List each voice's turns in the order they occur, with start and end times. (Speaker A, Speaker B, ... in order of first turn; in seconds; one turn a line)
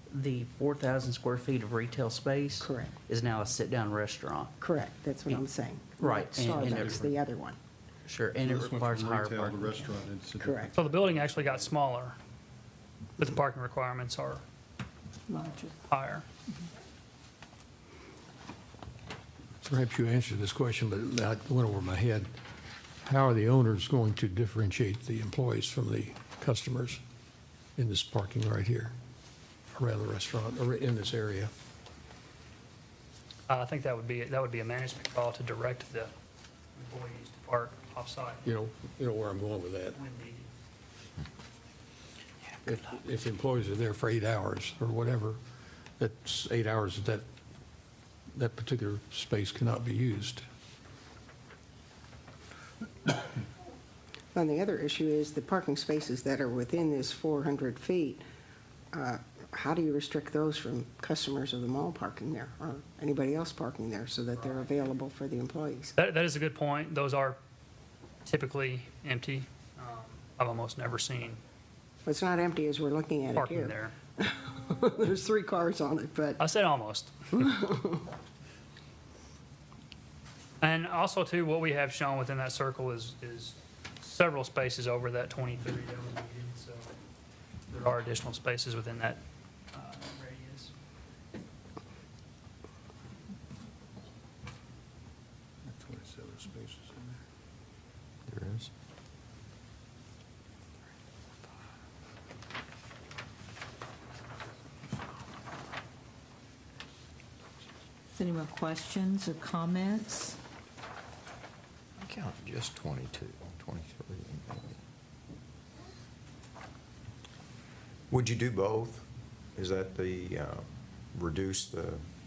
Speaker A: 0.1-4.5
Speaker B: 2.6-2.9
Speaker B: 4.6-7.6
Speaker A: 6.0-7.2
Speaker C: 6.4-7.1
Speaker A: 8.1-10.1
Speaker C: 8.3-11.7
Speaker B: 10.3-10.8
Speaker D: 10.8-12.2
Speaker D: 13.2-14.4
Speaker E: 15.3-15.7
Speaker D: 15.8-16.2
Speaker F: 19.6-22.3
Speaker F: 23.0-27.0
Speaker F: 27.8-28.9
Speaker F: 29.7-31.5
Speaker D: 33.5-36.1
Speaker D: 36.8-38.5
Speaker F: 38.4-40.0
Speaker D: 39.9-40.5
Speaker F: 42.6-45.4
Speaker F: 46.0-47.2
Speaker F: 48.3-50.4
Speaker B: 54.3-58.2
Speaker B: 58.9-65.9
Speaker D: 64.4-64.7
Speaker D: 66.0-67.4
Speaker D: 68.2-71.4
Speaker B: 72.0-76.4
Speaker D: 73.3-73.9
Speaker D: 76.4-77.3
Speaker B: 77.4-78.0
Speaker D: 80.6-86.9
Speaker D: 87.7-89.2
Speaker D: 89.7-90.7
Speaker F: 95.7-97.2
Speaker G: 98.3-98.7
Speaker E: 108.2-110.4
Speaker G: 112.0-114.8
Speaker G: 118.1-122.0